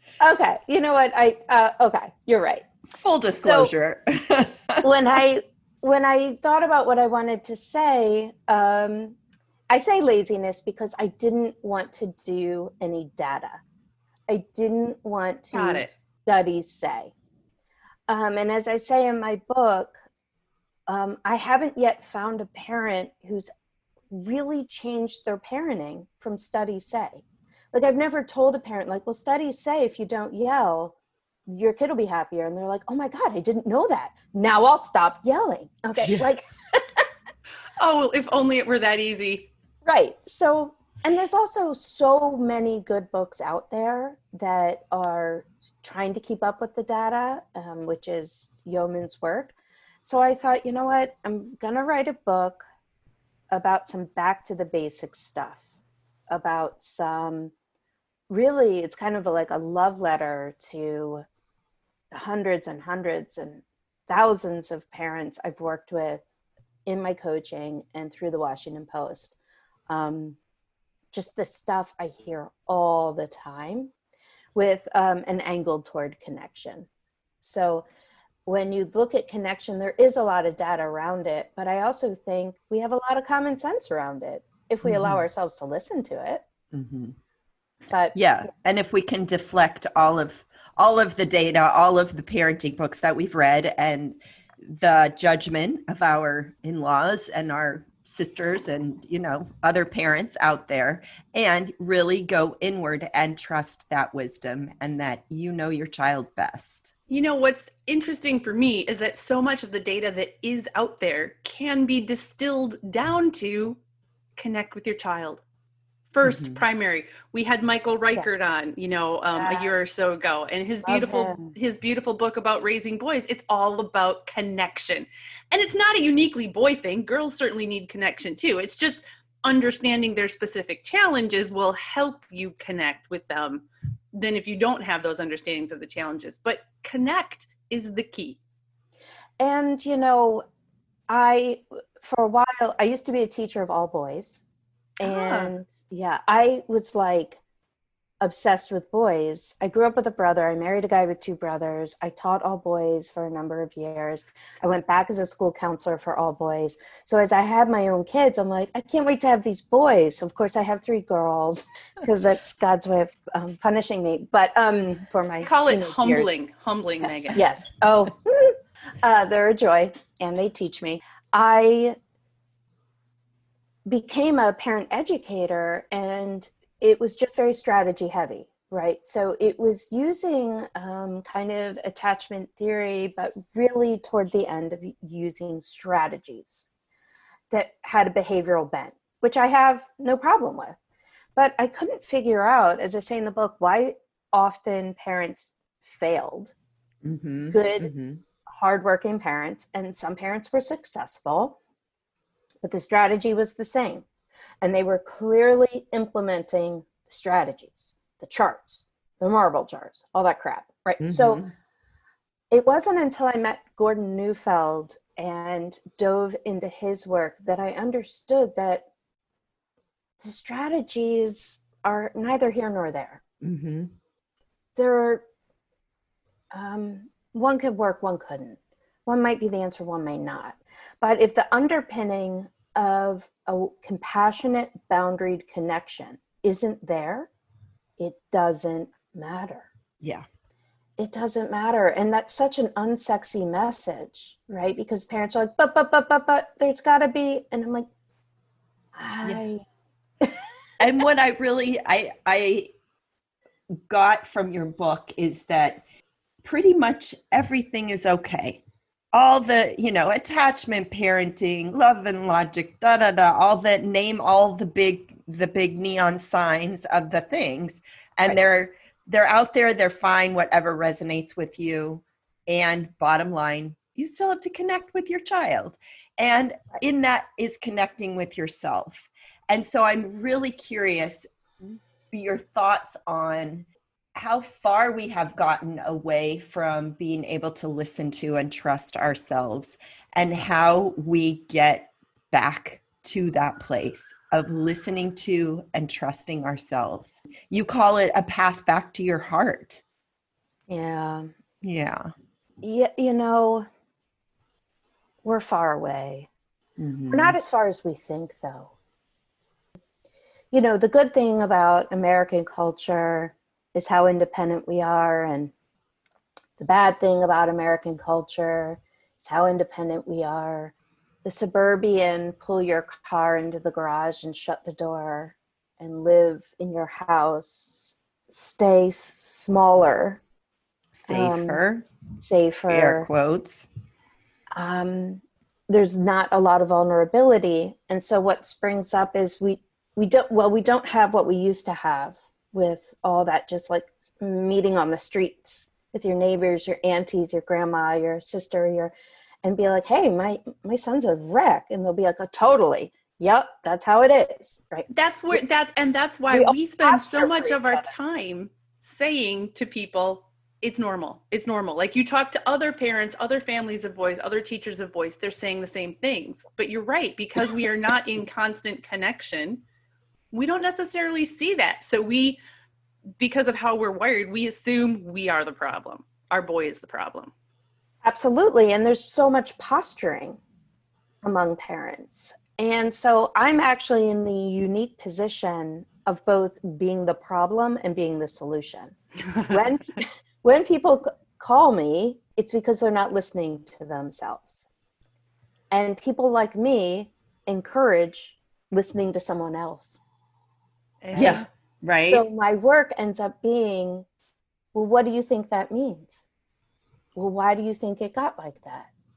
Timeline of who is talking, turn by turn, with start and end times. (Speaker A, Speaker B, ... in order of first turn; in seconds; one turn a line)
Speaker A: 0.2-2.7
Speaker B: 3.0-4.9
Speaker A: 3.4-3.7
Speaker A: 4.8-9.2
Speaker A: 9.7-13.6
Speaker A: 14.3-17.1
Speaker C: 15.5-15.9
Speaker A: 18.1-20.0
Speaker A: 20.9-23.5
Speaker A: 24.1-30.9
Speaker A: 31.5-37.0
Speaker B: 36.0-36.3
Speaker C: 37.8-39.5
Speaker A: 39.8-52.6
Speaker A: 53.5-55.6
Speaker A: 56.3-57.5
Speaker A: 58.3-61.3
Speaker A: 62.1-66.2
Speaker A: 66.9-69.3
Speaker A: 69.9-70.4
Speaker A: 71.1-73.9
Speaker A: 74.5-76.9
Speaker A: 77.4-77.9
Speaker A: 78.5-86.5
Speaker B: 84.8-85.2
Speaker B: 86.7-87.2
Speaker A: 87.9-88.2
Speaker B: 88.2-106.9
Speaker C: 107.1-113.8
Speaker C: 114.4-115.4
Speaker C: 116.1-138.4
Speaker B: 116.2-116.6
Speaker A: 119.3-119.9
Speaker A: 120.8-121.5
Speaker A: 139.4-140.4
Speaker A: 141.1-144.4
Speaker C: 145.0-145.5
Speaker A: 145.0-147.4
Speaker A: 148.2-166.4
Speaker C: 165.4-167.4
Speaker A: 167.0-172.0
Speaker A: 173.9-186.7
Speaker A: 187.5-190.8
Speaker A: 191.4-196.5
Speaker B: 197.0-198.2
Speaker A: 197.5-197.9
Speaker A: 198.5-201.6
Speaker A: 202.6-204.1
Speaker A: 204.6-211.4
Speaker B: 211.0-211.5
Speaker A: 212.5-218.9
Speaker A: 220.2-223.2
Speaker B: 223.4-223.9
Speaker A: 224.8-225.2
Speaker A: 226.5-237.3
Speaker A: 238.0-239.7
Speaker B: 240.0-240.3
Speaker A: 241.0-247.9
Speaker A: 248.9-249.6
Speaker B: 250.8-252.7
Speaker B: 253.9-255.8
Speaker B: 256.4-299.8
Speaker A: 300.7-301.3
Speaker B: 301.6-302.1
Speaker A: 302.6-303.7
Speaker A: 305.2-306.3
Speaker B: 306.8-307.4
Speaker A: 307.1-308.7
Speaker A: 310.5-315.5
Speaker A: 316.6-320.7
Speaker A: 321.2-330.2
Speaker B: 330.9-331.9
Speaker A: 331.1-331.6
Speaker A: 332.2-333.1
Speaker B: 332.7-333.7
Speaker A: 334.5-348.9
Speaker A: 349.4-355.4
Speaker C: 354.9-369.6
Speaker A: 356.3-357.9
Speaker C: 370.3-372.4
Speaker C: 373.2-377.3
Speaker A: 378.0-380.4
Speaker A: 381.2-394.6
Speaker A: 395.7-400.0
Speaker C: 401.0-401.5
Speaker B: 401.1-402.2
Speaker A: 402.1-404.1
Speaker A: 404.7-406.2
Speaker A: 407.2-408.9